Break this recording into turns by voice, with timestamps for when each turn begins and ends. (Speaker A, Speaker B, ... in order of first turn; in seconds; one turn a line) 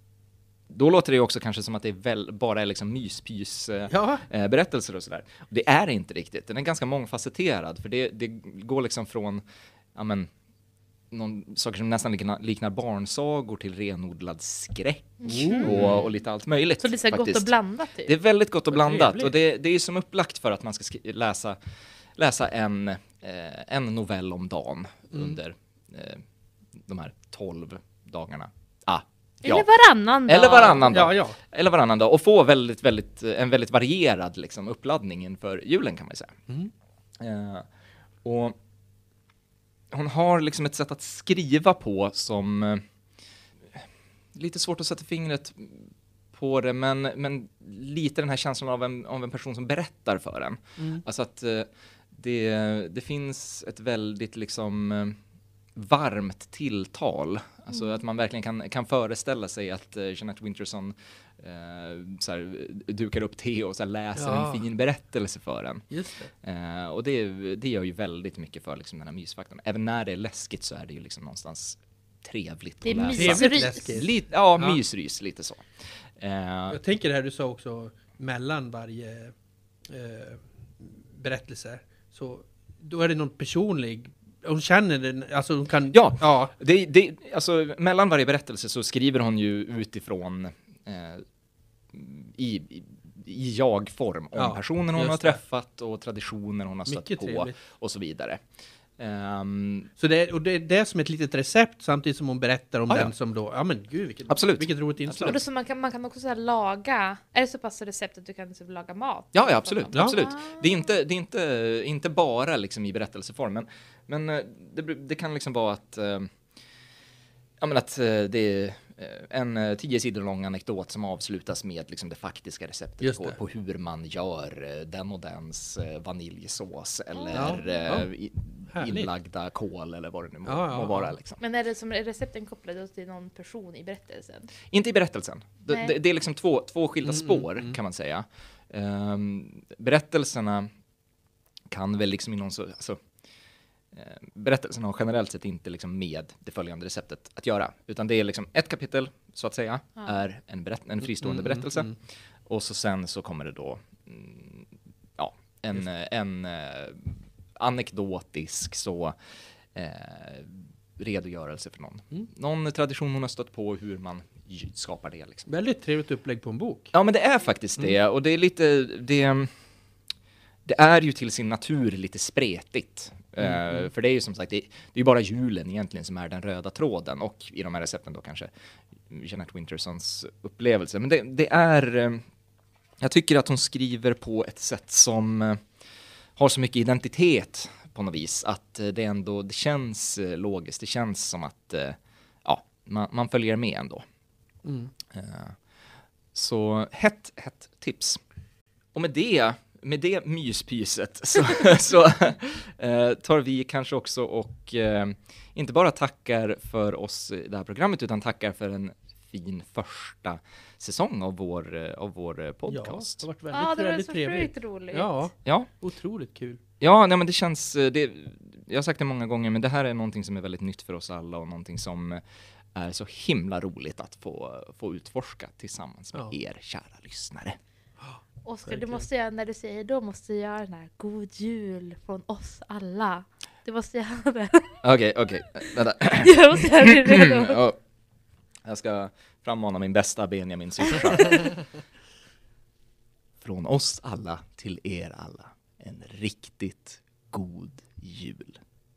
Speaker A: 0.7-9.4
Speaker B: 3.9-4.2
Speaker A: 9.9-10.3
Speaker A: 11.1-17.5
Speaker C: 15.2-15.7
Speaker B: 15.3-16.0
Speaker C: 16.8-18.1
Speaker A: 18.1-21.6
Speaker B: 18.7-19.3
Speaker A: 22.2-26.2
Speaker B: 25.1-25.4
Speaker A: 26.8-29.7
Speaker C: 29.4-30.9
Speaker A: 30.3-36.4
Speaker B: 30.9-31.4
Speaker A: 37.2-37.7
Speaker A: 38.2-38.6
Speaker A: 39.9-42.8
Speaker A: 43.7-55.2
Speaker B: 50.8-51.0
Speaker A: 55.8-65.8
Speaker B: 64.2-64.7
Speaker B: 65.9-66.3
Speaker A: 66.4-75.7
Speaker C: 72.8-73.9
Speaker B: 73.2-74.8
Speaker A: 76.2-76.8
Speaker B: 76.7-79.3
Speaker B: 79.9-86.5
Speaker A: 85.9-91.3
Speaker A: 91.9-98.4
Speaker B: 94.3-95.4
Speaker B: 96.9-97.5
Speaker A: 99.0-99.9
Speaker B: 100.0-105.4
Speaker A: 104.3-105.4
Speaker C: 105.2-110.6
Speaker A: 109.3-116.3
Speaker B: 109.9-110.3
Speaker A: 117.6-131.4
Speaker B: 123.0-123.4
Speaker C: 127.1-127.9
Speaker B: 127.3-128.1
Speaker B: 128.7-129.1
Speaker B: 130.5-131.2
Speaker C: 131.4-134.5
Speaker A: 134.7-140.7
Speaker B: 137.1-137.8
Speaker A: 141.7-143.0
Speaker A: 143.9-151.9
Speaker B: 151.2-151.9
Speaker A: 152.5-159.2
Speaker A: 159.8-165.5
Speaker B: 165.5-166.9
Speaker A: 166.9-169.5
Speaker A: 170.7-178.5
Speaker B: 173.4-173.8
Speaker A: 179.1-182.2
Speaker A: 183.0-185.6
Speaker A: 186.4-194.0
Speaker B: 194.7-194.9
Speaker A: 195.1-195.6
Speaker A: 196.3-198.2
Speaker A: 198.9-213.3
Speaker B: 212.7-216.6
Speaker C: 213.5-215.1
Speaker A: 215.4-215.7
Speaker A: 216.8-222.2
Speaker A: 222.7-227.6
Speaker B: 228.0-229.0
Speaker C: 228.4-234.8
Speaker A: 234.8-237.8
Speaker C: 236.0-237.6
Speaker A: 238.6-241.6
Speaker A: 243.4-248.6